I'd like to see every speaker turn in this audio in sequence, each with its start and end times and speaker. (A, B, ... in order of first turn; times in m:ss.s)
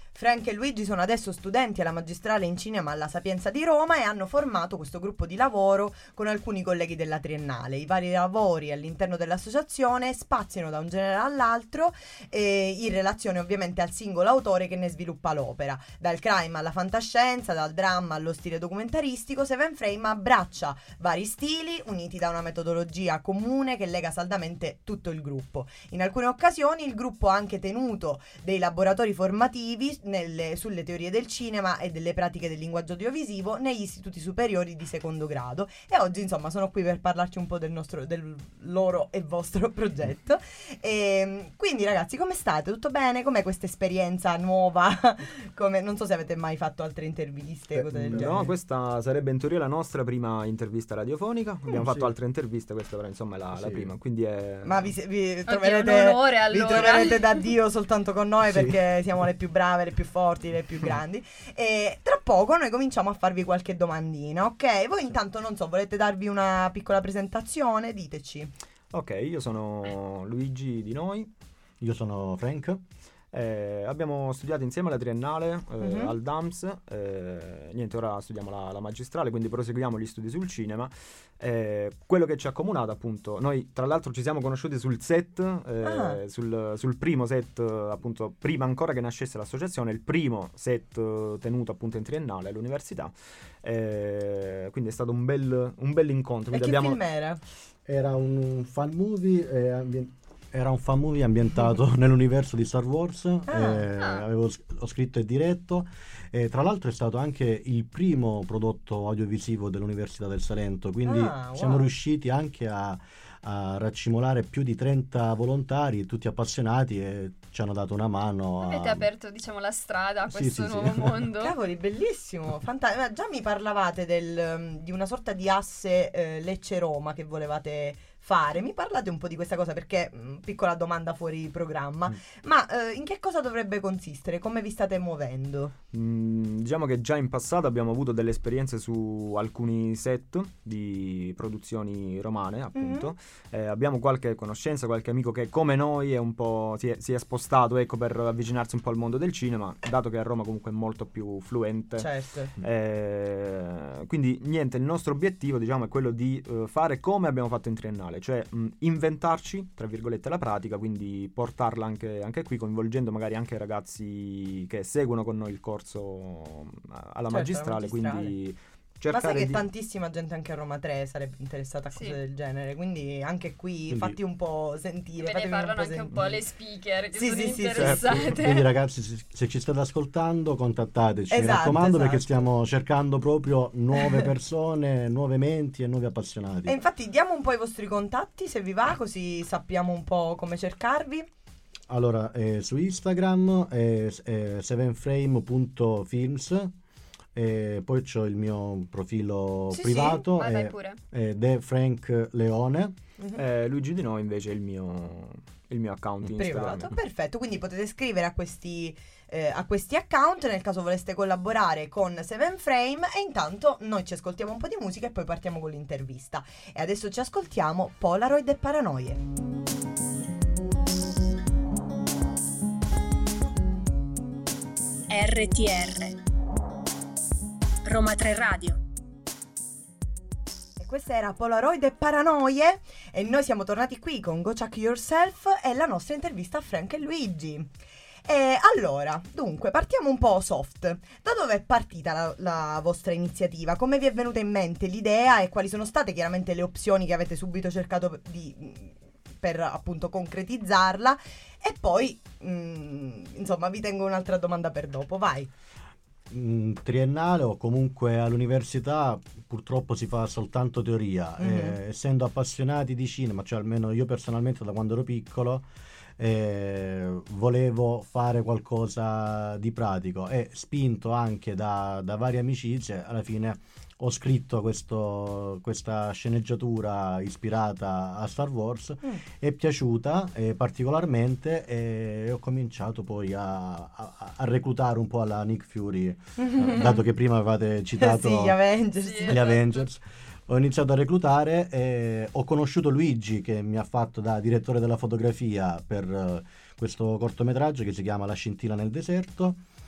0:00.1-0:48.5 A
0:47.7-0:48.5 B
0:48.1-0:54.9 C
0:51.7-0:52.1 B
0:53.5-0:53.9 B
0:54.6-1:08.5 A
0:55.5-0:57.2 D
0:58.5-0:58.8 B
1:08.9-1:11.3 C
1:11.8-1:12.8 B
1:13.3-1:37.0 C
1:15.8-1:16.1 A
1:25.8-1:26.2 A
1:36.5-1:37.4 A
1:37.8-1:59.0 B
1:43.5-1:43.8 A
1:44.0-1:44.2 D
1:51.0-1:51.9 A
1:58.6-2:01.5 D
2:00.3-2:01.2 B
2:01.4-2:15.7 A
2:15.9-2:32.1 C
2:22.7-2:23.1 A
2:32.0-2:32.5 A
2:32.6-2:49.6 C
2:47.3-2:48.3 A
2:49.1-2:56.4 A
2:51.9-2:52.2 D
2:53.9-2:54.2 B
2:55.2-2:58.6 D
2:57.1-2:58.0 A
2:57.8-3:06.8 B
3:01.3-3:02.4 A
3:04.0-3:04.3 A
3:06.7-3:11.3 A
3:11.9-3:16.7 B
3:17.3-3:23.0 B
3:19.7-3:21.0 D
3:23.4-3:27.0 C
3:26.3-3:39.2 A
3:45.1-3:46.2 E
3:47.8-3:48.8 E
3:50.8-3:57.7 A
3:58.2-4:15.5 A
4:16.3-4:25.7 B
4:21.4-4:21.8 A
4:26.2-4:48.6 B
4:46.4-4:47.0 A
4:48.0-4:49.6 A
4:49.0-4:49.9 D
4:49.2-4:59.6 B